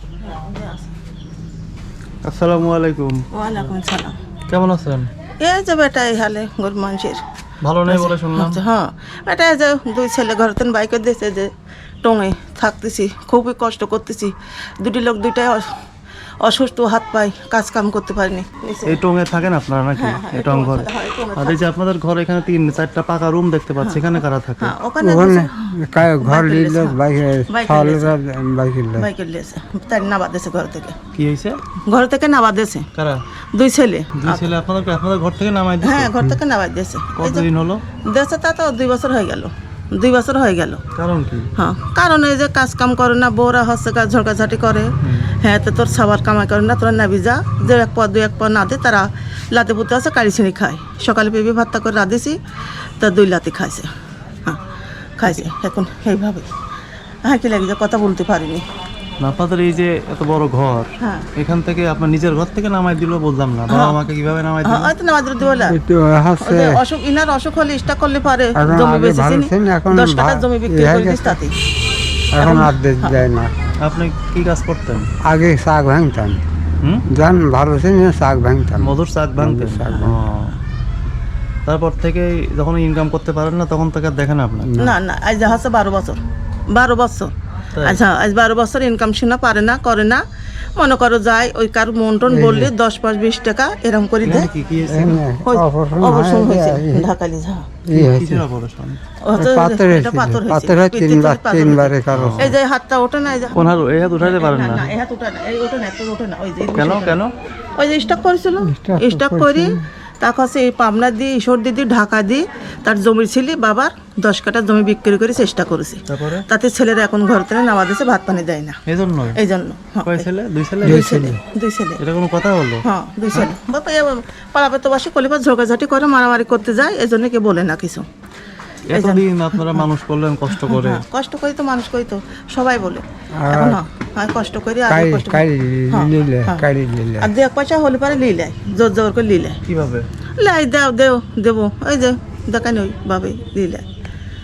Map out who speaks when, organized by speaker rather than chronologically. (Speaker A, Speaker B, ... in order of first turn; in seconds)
Speaker A: 0.2-0.9, 3.3-4.2, 5.4-7.2, 7.9-11.5, 12.0-15.7, 16.4-19.0, 20.0-21.7, 23.8-25.6, 26.2-28.1, 29.0-31.0, 31.9-32.9, 33.5-34.5, 35.8-37.5, 38.0-40.8, 41.6-52.4, 53.0-53.9, 55.2-56.5, 57.2-58.6, 61.0-61.3, 63.7-64.0, 64.7-65.8, 66.4-71.5, 72.4-73.3, 84.8-86.2, 86.7-87.3, 87.8-90.2, 90.8-94.5, 95.5-97.7, 99.2-103.7, 104.2-107.2, 107.8-118.8, 119.4-120.3, 120.8-122.0, 122.8-128.1, 128.9-129.8, 130.5-136.7, 137.2-139.6, 140.4-143.9
Speaker B: 2.2-3.2, 4.5-5.1, 7.6-8.6, 18.9-24.7, 31.1-31.6, 33.0-33.2, 34.1-36.1, 37.2-37.8, 41.0-41.5, 45.0-45.3, 59.2-64.9, 73.8-75.1, 78.8-80.6, 81.7-84.7, 94.2-95.2, 97.9-99.0, 102.1-102.5, 103.5-104.9, 106.7-107.3, 116.1-116.5, 118.9-119.4, 120.1-121.1, 122.0-123.5, 128.9-131.0, 139.7-140.0
Speaker C: 25.0-29.1, 65.6-66.8, 68.5-71.4, 72.3-73.5, 75.2-76.4, 77.1-80.2, 84.7-85.0, 92.3-92.7, 94.9-97.1, 97.9-98.5, 99.4-102.6, 108.6-109.8, 120.8-121.4, 133.4-133.8, 134.9-137.3